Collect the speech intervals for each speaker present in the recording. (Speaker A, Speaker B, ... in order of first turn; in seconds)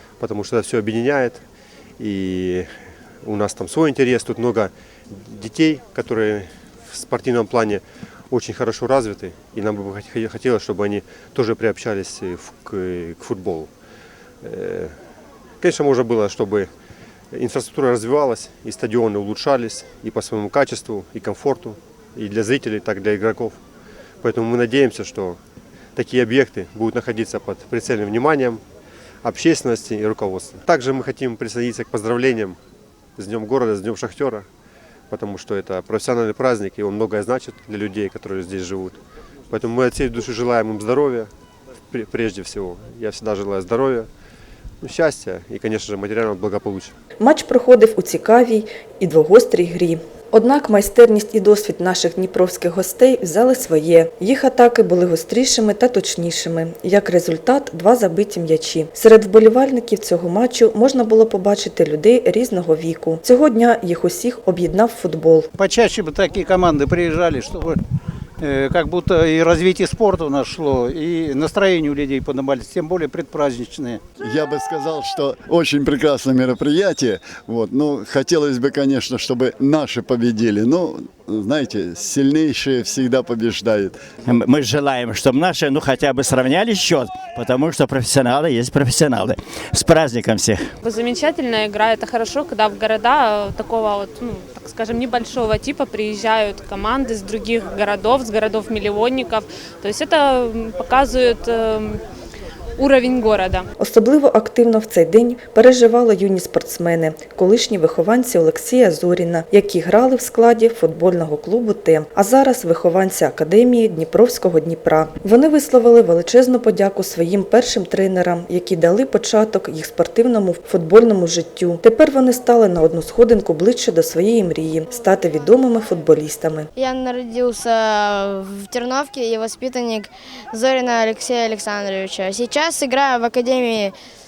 Speaker A: 0.2-1.4, 2.0-2.7, 3.2-13.7, 14.4-14.9, 15.6-16.7, 17.3-23.6, 24.2-25.4, 25.9-28.6, 29.2-32.6, 33.2-34.5, 35.1-39.0, 39.5-41.3, 41.9-44.1, 44.8-46.9
Speaker B: 47.2-65.5, 103.8-126.7
Speaker C: 65.5-67.8, 68.4-74.0
Speaker D: 74.2-84.0
Speaker E: 84.2-90.7
Speaker F: 90.8-102.0, 102.8-103.6
Speaker G: 126.8-133.9